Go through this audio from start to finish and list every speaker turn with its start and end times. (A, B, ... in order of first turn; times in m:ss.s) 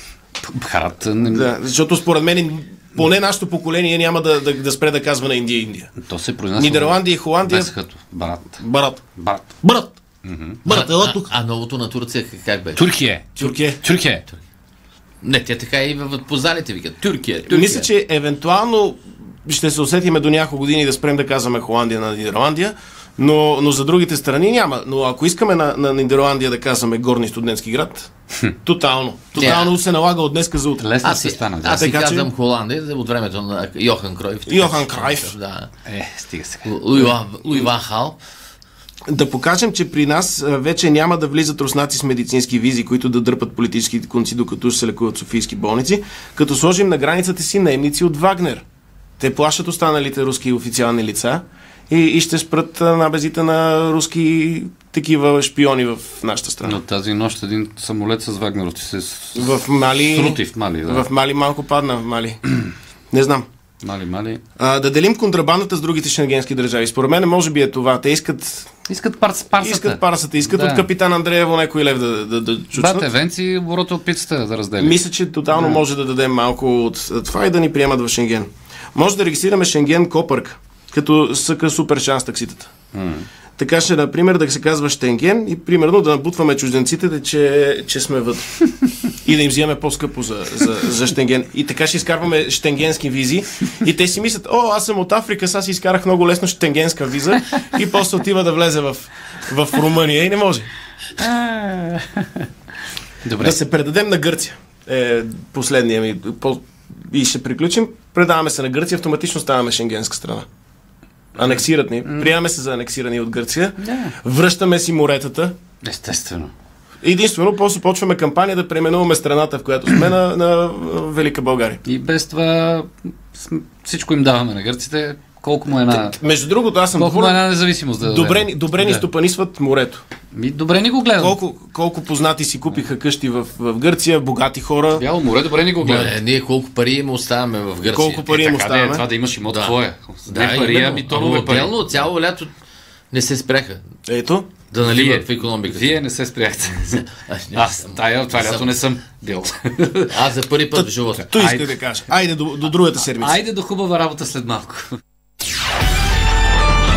0:00.4-0:01.5 A
0:01.3-0:05.9 B
0:06.0-0:08.6 A
0:06.6-0:07.7 B
0:08.6-0:09.0 B
0:09.2-0:09.6 A
0:09.6-0:10.0 B
0:10.2-0:10.7 A
0:10.6-0:11.3 B
0:10.7-0:12.9 C
0:12.8-0:14.3 A
0:13.4-0:13.8 B
0:15.2-0:17.9 C
0:17.5-0:28.1 B
0:28.6-0:30.9 B
0:29.4-0:29.7 C
0:30.8-0:31.9 A
0:31.0-0:35.7 C
0:31.8-0:32.3 B
0:34.5-0:35.4 B
0:35.9-0:36.8 A
0:36.6-0:38.2 C
0:39.1-0:48.6 B
0:49.2-0:56.8 B
0:56.6-1:01.1 A
0:59.4-1:02.5 B
1:03.1-1:03.5 B
1:03.8-1:04.4 A
1:04.6-1:08.7 B
1:08.9-1:10.9 A
1:09.6-1:13.1 B
1:12.7-1:15.0 A
1:14.8-1:22.7 B
1:15.5-1:15.8 A
1:22.9-1:23.3 A
1:23.6-1:28.7 B
1:29.2-1:40.7 B
1:41.2-1:42.2 A
1:43.2-1:43.6 A
1:43.4-1:50.5 B
1:51.4-1:52.3 A
1:51.4-1:55.6 B
1:53.8-1:54.1 A
1:55.8-1:56.5 A
1:57.0-2:01.8 B
2:01.8-2:06.2 A
2:05.9-2:07.4 B
2:06.9-2:09.0 A
2:08.0-2:10.0 B
2:10.3-2:11.4 A
2:11.2-2:15.0 B
2:15.0-2:16.2 A
2:15.8-2:18.4 C
2:17.9-2:19.1 B
2:18.3-2:21.8 A
2:19.5-2:19.8 C
2:20.3-2:22.5 C
2:23.1-2:23.8 C
2:24.1-2:24.5 B
2:24.7-2:26.0 C
2:24.8-2:30.1 A
2:26.8-2:28.8 C
2:30.1-2:31.3 C
2:30.7-2:33.4 B
2:31.2-2:31.8 A
2:33.1-2:35.0 A